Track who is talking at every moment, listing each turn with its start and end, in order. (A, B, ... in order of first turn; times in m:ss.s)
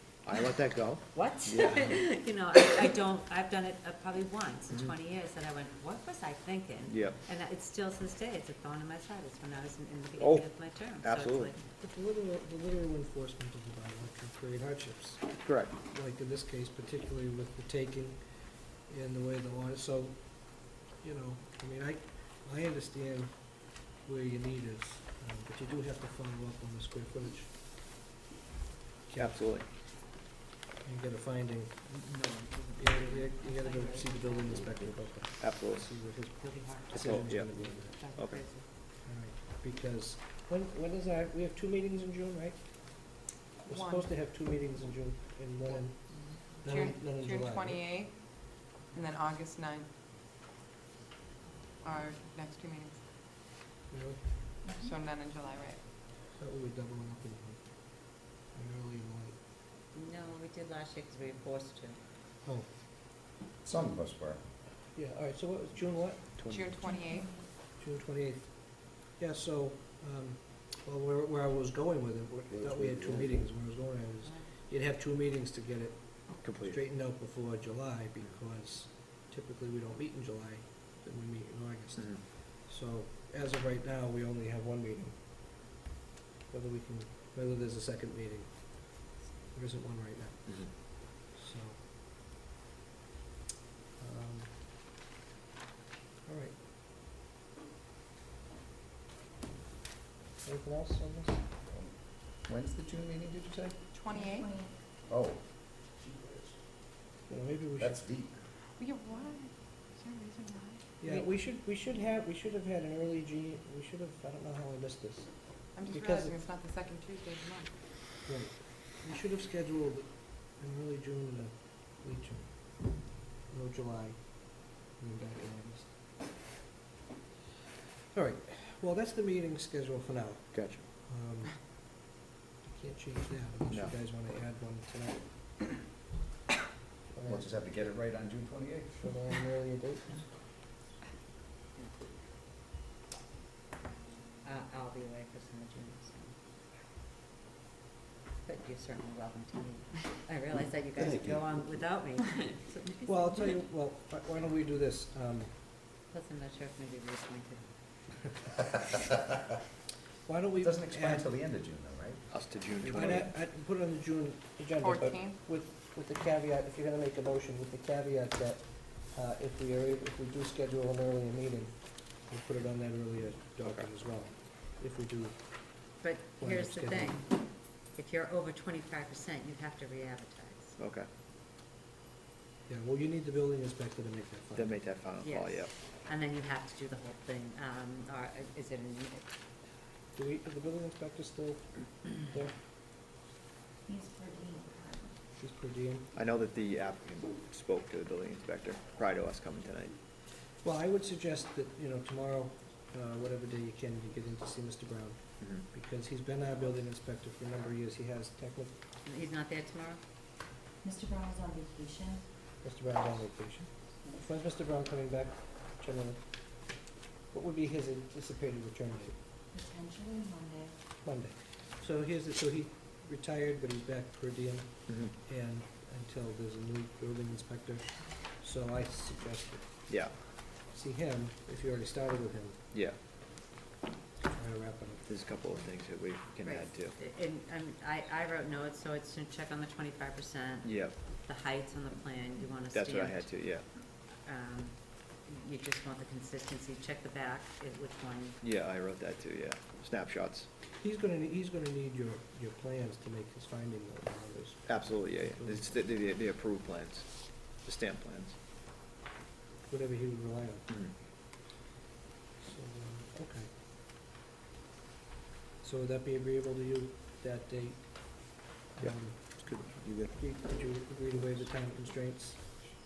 0:00.2-0:02.0 A
0:01.1-0:11.6 B
0:06.9-0:07.2 A
0:10.2-0:11.5 A
0:11.8-0:27.6 C
0:15.4-0:15.7 A
0:29.1-0:29.5 C
0:29.2-0:29.7 A
0:30.8-0:31.8 C
0:31.9-0:35.0 B
0:32.8-0:38.0 C
0:35.4-0:35.9 A
0:36.4-0:38.7 B
0:36.9-0:37.5 A
0:38.2-0:38.4 A
0:39.0-0:47.8 C
0:43.7-0:44.0 D
0:46.1-0:46.6 B
0:46.2-0:49.9 D
0:51.8-0:53.0 D
0:53.9-0:54.6 C
0:54.8-0:55.8 D
0:56.3-0:59.4 C
0:59.9-1:02.0 B
1:02.4-1:02.7 C
1:03.6-1:04.4 E
1:04.9-1:06.5 C
1:06.4-1:06.8 A
1:06.5-1:07.3 D
1:07.6-1:25.8 C
1:12.5-1:13.3 E
1:16.4-1:16.8 A
1:22.0-1:22.2 A
1:26.5-1:31.8 C
1:34.0-1:34.6 C
1:36.2-1:36.6 C
1:40.4-1:41.4 C
1:41.7-1:43.8 E
1:43.9-1:44.5 D
1:44.2-1:44.7 F
1:45.1-1:46.6 E
1:47.3-1:48.0 C
1:47.8-1:48.4 E
1:48.8-1:50.8 D
1:51.0-1:56.4 C
1:55.7-1:57.8 D
1:58.2-2:06.0 C
2:08.1-2:12.1 C
2:10.5-2:10.8 A
2:12.6-2:15.8 C
2:13.7-2:13.9 A
2:17.1-2:17.5 C
2:17.2-2:19.1 E
2:19.0-2:20.3 C
2:24.4-2:26.4 B
2:28.4-2:33.6 B
2:33.1-2:35.5 C
2:36.1-2:37.7 B
2:40.3-2:41.3 C
2:40.6-2:42.3 E
2:42.3-2:43.3 A
2:42.8-2:57.2 C
2:44.8-2:45.4 D
2:53.6-2:53.9 A
2:56.0-3:00.8 B
3:00.8-3:01.1 A
3:02.7-3:04.9 C
3:04.5-3:05.7 A
3:05.2-3:09.3 B
3:10.1-3:12.6 C
3:13.9-3:15.1 F
3:15.3-3:16.1 C
3:16.1-3:19.9 A
3:20.6-3:28.8 C
3:25.4-3:25.6 A
3:29.0-3:30.0 B
3:30.8-3:32.2 F
3:32.6-3:39.2 C
3:39.5-3:40.7 F
3:41.0-3:50.0 C
3:49.9-3:50.1 A
3:50.7-3:52.6 C
3:54.3-3:55.0 C
3:55.0-3:57.0 A
3:56.4-4:08.4 B
4:00.6-4:01.0 A
4:02.7-4:03.6 A
4:08.4-4:10.5 A
4:10.8-4:15.6 C
4:14.6-4:18.4 A
4:19.7-4:20.8 C
4:20.7-4:20.9 A
4:22.4-4:23.5 C
4:25.6-4:32.5 C
4:29.8-4:30.1 A